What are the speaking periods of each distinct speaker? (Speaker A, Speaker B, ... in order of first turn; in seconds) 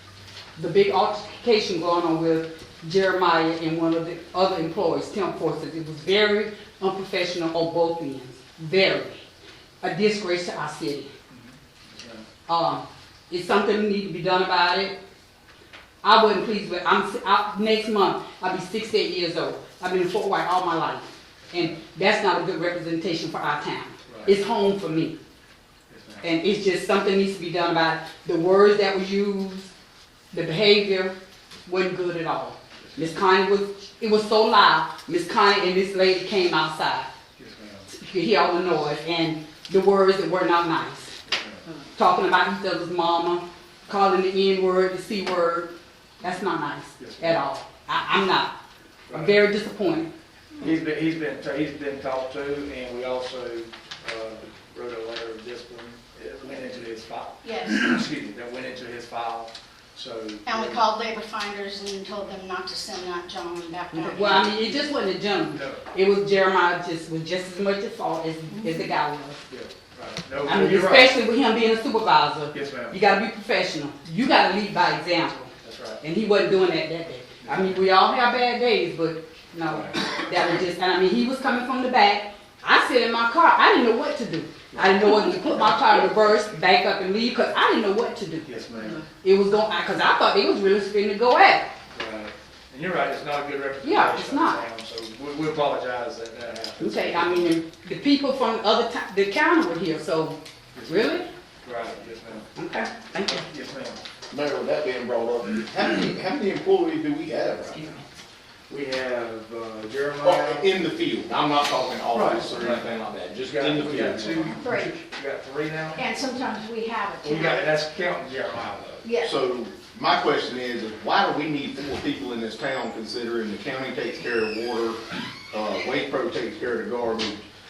Speaker A: 0.6-9.2, 9.8-11.1, 12.5-15.0, 16.0-25.1, 26.2-29.7, 30.3-31.1, 31.6-37.1, 37.9-41.1, 41.9-48.5, 49.1-50.1, 63.9-69.4, 70.5-88.5, 89.2-91.7, 93.8-94.6, 96.8-101.3, 102.5-103.4
Speaker B: 11.3-12.3, 24.1-24.4, 25.9-26.3, 37.4-37.9, 41.2-41.6, 47.0-47.4, 49.1-49.7, 50.6-60.8, 65.5-65.8, 69.5-71.2, 72.5-73.0, 75.6-76.0, 77.4-77.9, 79.6-80.0, 84.7-86.0, 88.4-89.0, 91.9-97.5, 100.7-102.5, 103.2-104.0, 108.7-110.8, 112.1-112.9, 113.4-116.0, 117.2-119.0
Speaker C: 57.4-57.9, 60.4-64.6, 68.5-68.9, 114.5-115.0, 115.9-117.8, 119.0-119.4
Speaker D: 104.3-108.0, 110.2-114.6, 119.2-127.4